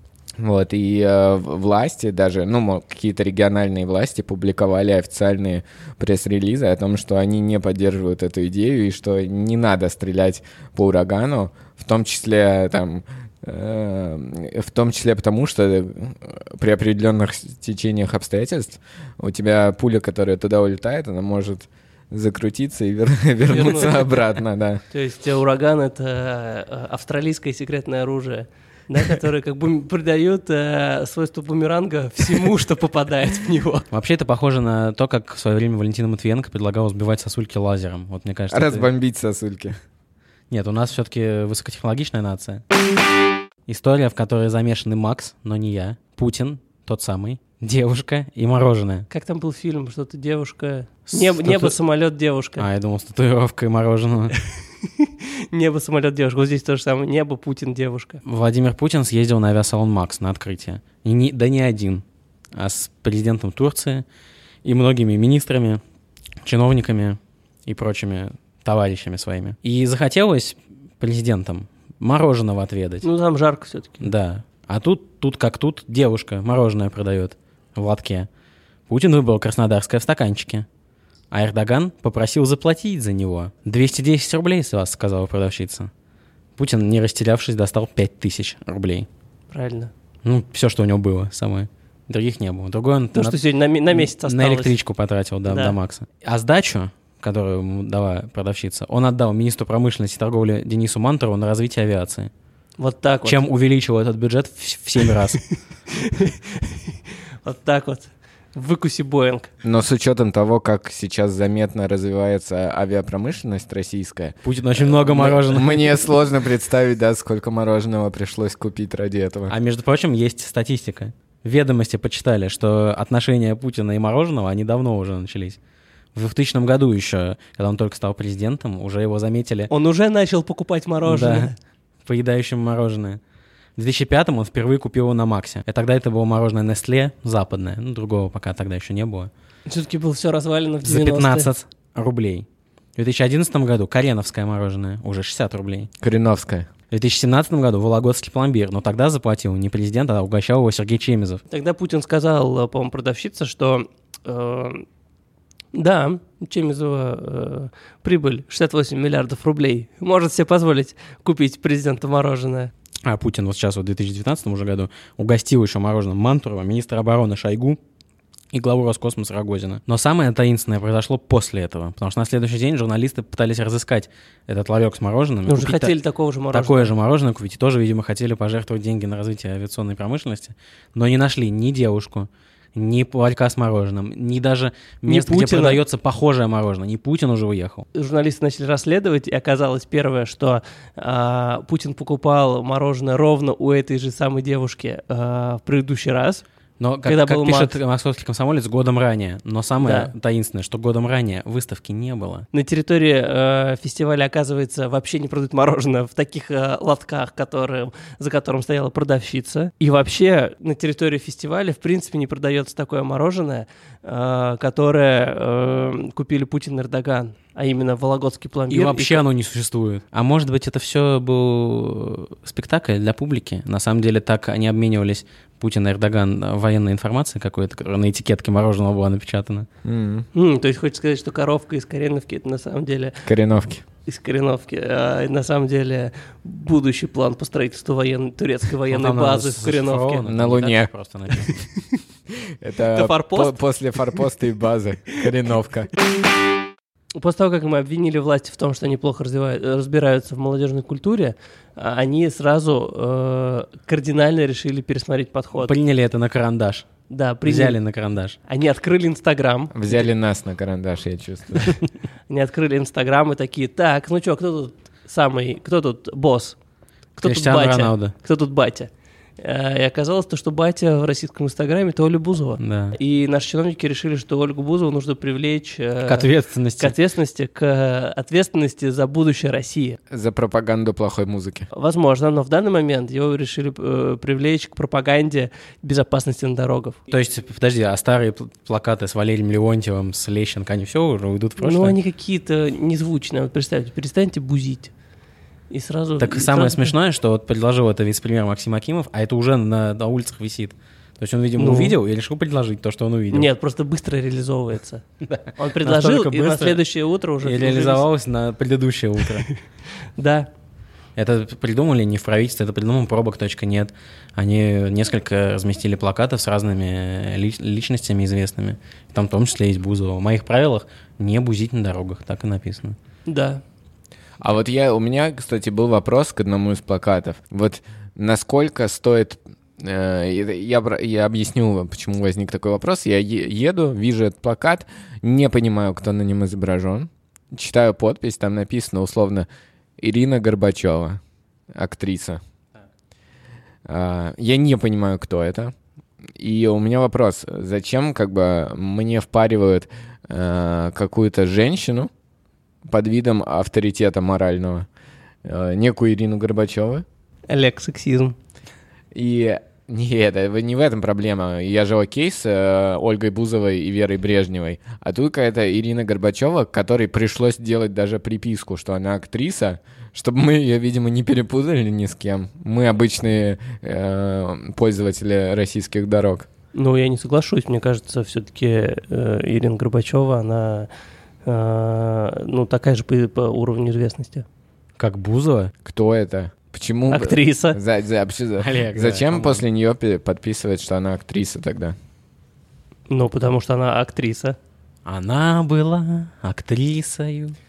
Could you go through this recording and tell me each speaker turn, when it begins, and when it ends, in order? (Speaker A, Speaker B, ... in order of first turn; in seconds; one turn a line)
Speaker A: 0.4-24.8
Speaker B: 23.5-24.2
Speaker B: 24.9-33.9
Speaker C: 33.9-38.9
Speaker A: 38.5-39.8
Speaker C: 40.5-42.6
Speaker C: 43.7-49.1
Speaker B: 49.1-52.7
Speaker C: 51.1-51.8
Speaker C: 52.6-54.4
Speaker B: 54.9-58.2
Speaker C: 58.2-62.0
Speaker C: 62.5-64.0
Speaker C: 64.6-65.8
Speaker C: 66.4-73.1
Speaker B: 73.0-74.1
Speaker C: 74.0-78.3
Speaker C: 78.9-80.7
Speaker C: 81.3-85.9
Speaker C: 86.6-89.1
Speaker B: 89.5-89.9
Speaker C: 90.2-93.4
Speaker B: 93.1-94.8
Speaker C: 93.9-102.3
Speaker B: 95.5-95.8
Speaker B: 102.8-103.4
Speaker C: 103.2-105.5
Speaker B: 105.9-109.5
Speaker A: 109.6-119.5
Speaker C: 114.4-115.9
Speaker C: 119.5-125.6
Speaker C: 126.2-129.7
Speaker B: 129.7-131.6
Speaker C: 131.1-131.5
Speaker C: 132.1-133.2
Speaker C: 133.8-139.3
Speaker B: 139.7-141.5
Speaker C: 140.8-145.9
Speaker A: 146.0-146.7
Speaker C: 146.9-151.4
Speaker B: 151.5-154.8
Speaker B: 155.7-162.7
Speaker C: 163.1-167.8
Speaker C: 168.5-175.9
Speaker B: 175.5-176.9
Speaker C: 176.5-187.9
Speaker B: 185.1-185.8
Speaker B: 187.9-196.4
Speaker C: 196.8-202.5
Speaker B: 197.0-197.8
Speaker B: 199.8-200.1
Speaker B: 202.5-219.2
Speaker C: 218.7-229.7
Speaker A: 229.8-230.3
Speaker B: 230.3-233.2
Speaker A: 233.2-233.8
Speaker B: 234.1-240.2
Speaker C: 238.9-241.5
Speaker A: 240.3-240.9
Speaker A: 242.5-245.9
Speaker B: 242.9-243.6
Speaker B: 247.2-255.7
Speaker C: 255.6-256.9
Speaker B: 257.1-257.8
Speaker C: 257.4-258.4
Speaker B: 258.5-259.8
Speaker A: 259.7-261.8
Speaker B: 262.3-266.6
Speaker B: 267.2-280.0
Speaker C: 267.2-268.1
Speaker C: 272.6-273.0
Speaker C: 276.1-276.9
Speaker A: 280.1-281.7
Speaker B: 281.7-287.0
Speaker C: 287.1-292.0
Speaker B: 291.6-294.9
Speaker B: 295.7-296.9
Speaker C: 296.2-303.5
Speaker B: 301.6-302.0
Speaker B: 303.3-305.0
Speaker C: 305.2-306.8
Speaker B: 305.6-308.1
Speaker C: 307.4-309.5
Speaker B: 310.2-310.5
Speaker C: 311.2-323.0
Speaker B: 323.3-323.6
Speaker A: 324.4-339.5
Speaker A: 340.0-341.2
Speaker A: 341.7-342.4
Speaker A: 343.9-345.7
Speaker A: 346.4-352.1
Speaker A: 352.9-354.9
Speaker A: 355.4-357.1
Speaker B: 357.5-358.4
Speaker A: 359.1-376.5
Speaker B: 376.8-380.9
Speaker B: 381.4-384.4
Speaker C: 385.0-385.7
Speaker A: 385.9-392.0
Speaker B: 387.1-387.8
Speaker C: 388.6-389.6
Speaker B: 393.1-394.6
Speaker C: 395.1-397.6